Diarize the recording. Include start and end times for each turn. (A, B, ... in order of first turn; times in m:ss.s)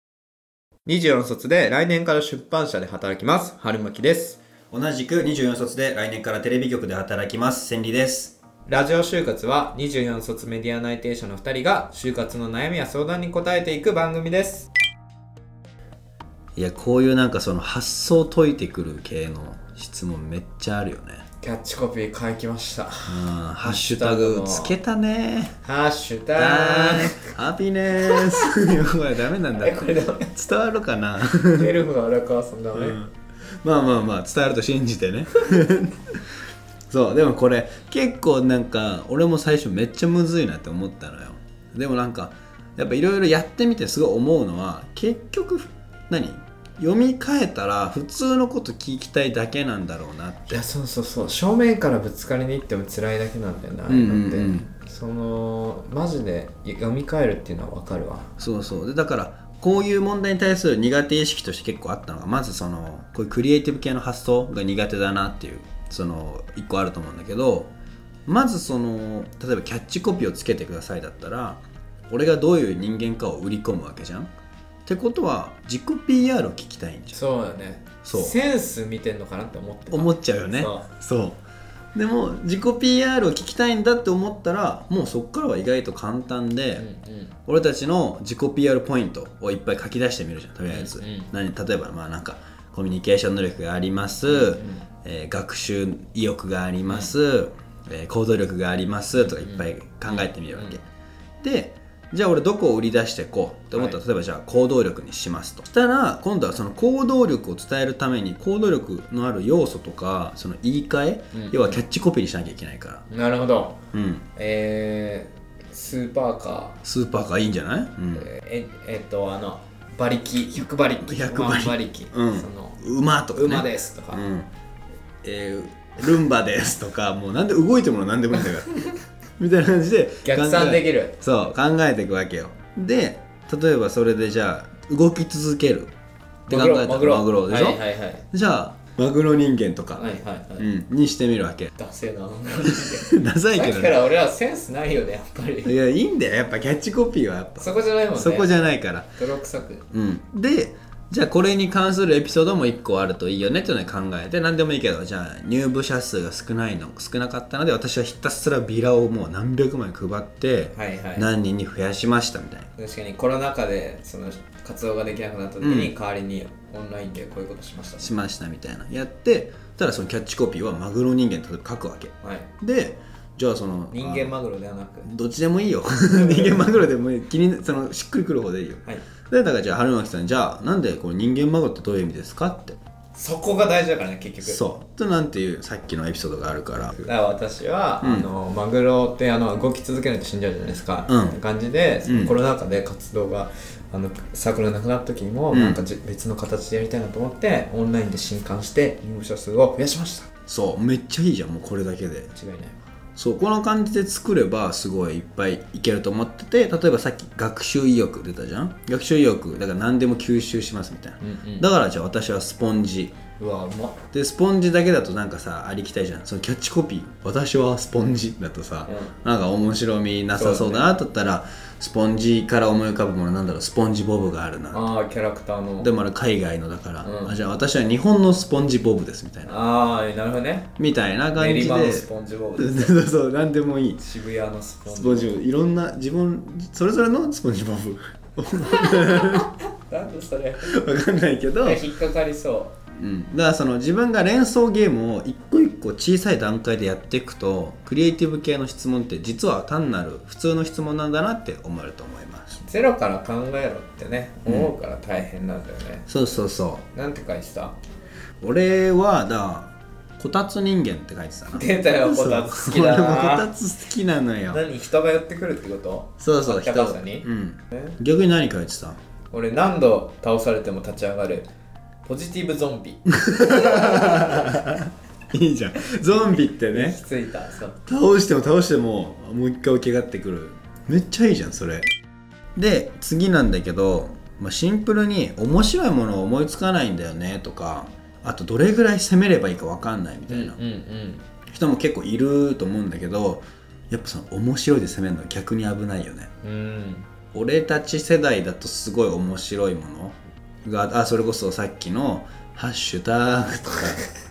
0:00.8-0:04.4 A
0:04.7-0:08.4 B
0:08.7-0:14.7 A
0:16.6-0:21.2 B
0:21.4-0:24.8 A
0:23.1-0:25.6 B
0:25.6-0:27.3 A
0:26.4-0:31.7 B
0:28.0-0:28.7 A
0:29.5-0:30.3 A
0:31.5-0:33.0 A
0:32.7-0:36.2 B
0:36.9-0:50.6 B
0:50.5-0:58.3 A
0:53.9-0:54.7 B
0:58.4-1:07.7 B
1:08.3-1:14.3 B
1:14.8-1:17.2 B
1:17.1-1:20.8 A
1:18.0-1:18.4 B
1:19.9-1:21.4 B
1:21.9-1:26.8 B
1:26.8-1:27.3 A
1:27.4-1:40.8 B
1:30.7-1:31.3 A
1:34.3-1:34.8 A
1:36.9-1:37.1 A
1:39.1-1:40.8 A
1:41.4-1:53.1 B
1:51.3-1:51.8 A
1:53.1-1:53.8 A
1:53.9-1:54.2 B
1:54.4-1:56.8 A
1:56.8-1:58.2 B
1:58.1-2:02.8 A
2:01.0-2:04.5 B
2:03.3-2:04.2 A
2:05.2-2:08.7 B
2:09.4-2:15.9 B
2:10.2-2:11.2 A
2:16.5-2:18.3 A
2:16.5-2:17.8 B
2:18.3-2:20.0 B
2:19.9-2:20.7 A
2:20.6-2:21.7 B
2:21.8-2:25.7 A
2:22.6-2:24.0 B
2:25.6-2:29.1 B
2:27.6-2:28.5 A
2:29.1-2:29.8 A
2:29.9-2:42.7 B
2:40.7-2:41.3 A
2:42.8-2:48.1 A
2:45.6-2:45.9 B
2:48.0-2:54.3 B
2:52.2-2:52.5 A
2:53.9-2:55.1 A
2:55.0-3:02.8 B
2:56.0-2:56.8 A
3:03.1-3:04.6 A
3:04.4-3:07.1 B
3:07.0-3:20.3 A
3:08.0-3:08.3 B
3:11.1-3:11.4 B
3:12.0-3:12.3 B
3:15.5-3:15.8 B
3:20.5-3:22.3 B
3:22.3-3:22.8 A
3:23.2-3:33.2 B
3:31.2-3:31.7 A
3:33.4-3:34.0 A
3:34.1-3:44.9 B
3:38.9-3:39.1 A
3:40.3-3:40.9 A
3:44.7-3:45.9 A
3:45.8-3:49.5 B
3:47.0-3:47.3 A
3:49.4-3:50.7 A
3:50.8-3:54.0 B
3:51.3-3:53.0 A
3:54.0-3:55.4 A
3:54.9-3:59.5 B
3:58.6-4:00.8 A
4:00.6-4:01.8 B
4:01.6-4:02.8 A
4:02.9-4:12.6 B
4:12.6-4:16.1 A
4:14.5-4:14.7 B
4:16.1-4:16.8 B
4:16.9-4:17.8 A
4:18.4-4:24.6 B
4:21.5-4:23.5 A
4:24.5-4:27.9 A
4:26.2-4:29.0 B
4:29.3-4:31.5 A
4:32.0-4:34.5 A
4:33.1-4:37.0 B
4:36.5-4:37.8 A
4:37.8-4:41.8 B
4:42.6-4:50.6 B
4:50.3-4:51.3 A
4:51.5-4:56.3 B
4:56.4-4:57.1 A
4:57.3-5:04.1 B